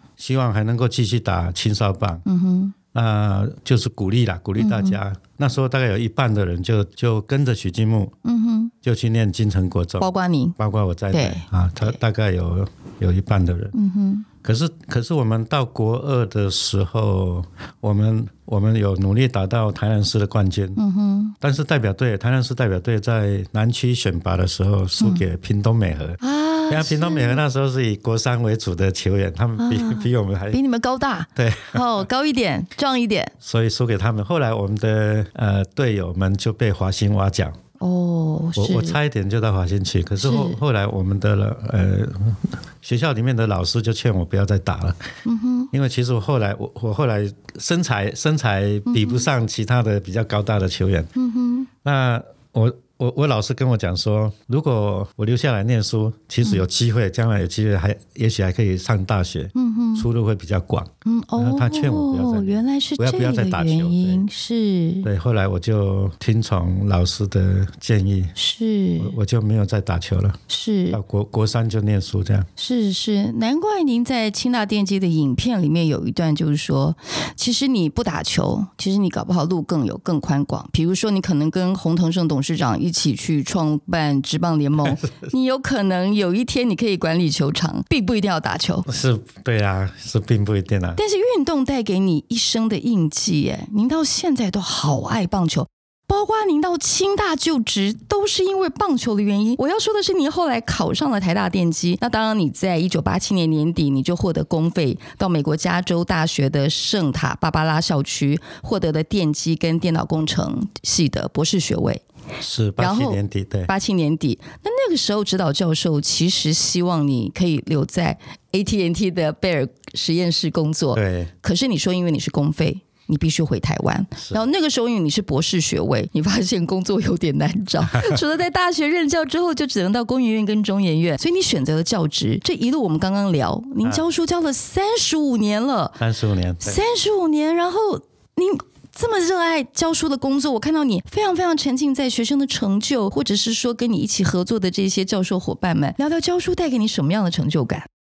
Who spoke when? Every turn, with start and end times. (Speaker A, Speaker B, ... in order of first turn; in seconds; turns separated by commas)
Speaker A: 0.2-2.2, Speaker B: 2.2-2.8, Speaker A: 2.9-8.1, Speaker B: 4.6-5.0, Speaker B: 8.2-8.7, Speaker A: 8.8-13.7, Speaker B: 10.0-10.6, Speaker B: 11.1-12.0, Speaker B: 13.7-14.3, Speaker A: 14.4-20.8, Speaker B: 20.8-21.4, Speaker A: 21.4-30.6, Speaker B: 26.2-27.4, Speaker B: 29.6-33.3, Speaker A: 31.4-32.1, Speaker A: 33.4-37.5, Speaker B: 37.8-39.0, Speaker A: 38.5-45.0, Speaker B: 40.2-40.6, Speaker B: 45.2-45.7, Speaker A: 45.7-51.1, Speaker B: 48.9-49.3, Speaker B: 51.2-51.7, Speaker A: 51.8-64.2, Speaker B: 59.5-60.0, Speaker B: 61.0-65.1, Speaker A: 65.0-68.3, Speaker B: 68.4-69.2, Speaker A: 69.0-70.4, Speaker B: 70.5-71.0, Speaker A: 70.9-72.5, Speaker B: 72.6-88.9, Speaker A: 88.8-91.0, Speaker B: 91.0-112.0, Speaker A: 112.4-113.7, Speaker B: 112.8-136.0, Speaker A: 120.9-121.3, Speaker A: 136.0-136.8, Speaker B: 136.6-147.9